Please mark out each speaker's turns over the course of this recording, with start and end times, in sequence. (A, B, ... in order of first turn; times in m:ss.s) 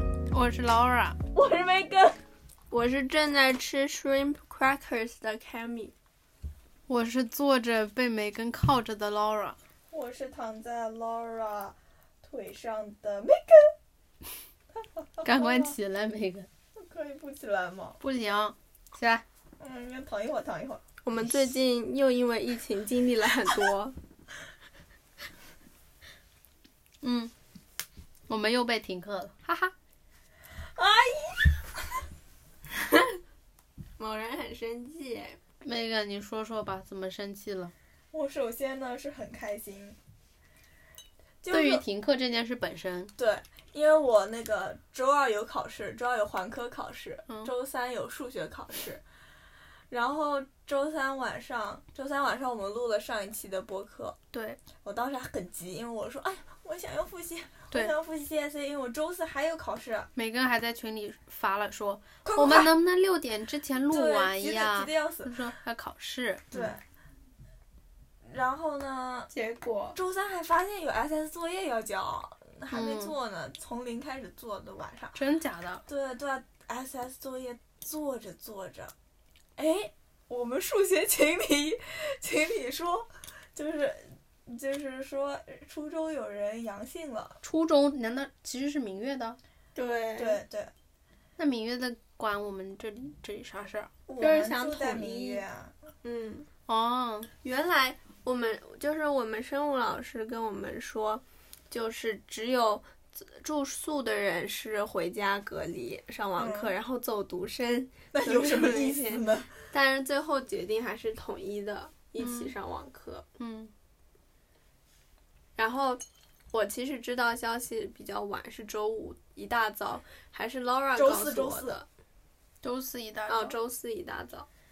0:00.3-0:01.2 A
0:01.3-0:02.2 B
0:02.7-0:05.9 C
0:06.9-0:09.6 A
0:09.9-0:13.8 B
0:15.0-0:15.8 B
0:15.2-0:16.5 A
0:16.8-0:18.0 B
0:18.0-0:19.2 A
0:19.6-0:20.8 B
0:21.0-0:24.0 C
0:27.0-0:27.3 A
0:28.3-0:29.7 A
0:30.8-0:31.7 B
0:34.0-0:35.4 C
0:35.6-0:37.7 A
0:38.1-0:40.0 B
0:41.4-0:41.8 B
0:41.5-0:43.1 A
0:43.2-0:49.0 B
0:49.9-0:54.2 B
0:54.3-0:54.6 A
0:54.8-1:00.1 B
1:00.2-1:06.8 A
1:02.2-1:02.7 B
1:03.9-1:05.5 B
1:06.5-1:06.8 B
1:08.2-1:09.3 B
1:09.4-1:10.0 C
1:10.0-1:15.2 B
1:12.7-1:13.1 A
1:15.2-1:15.8 A
1:15.9-1:18.9 B
1:19.6-1:27.4 B
1:27.4-1:29.4 A
1:29.8-1:30.4 C
1:30.2-1:30.7 B
1:31.4-1:33.9 A
1:34.1-1:35.9 B
1:34.2-1:35.4 C
1:36.0-1:36.5 C
1:36.7-1:37.3 A
1:37.4-1:53.2 C
1:46.4-1:46.7 B
1:48.1-1:49.5 B
1:52.2-1:52.5 A
1:53.4-1:53.7 A
1:55.6-2:01.9 C
2:01.0-2:01.8 B
2:02.6-2:03.6 A
2:03.3-2:04.5 C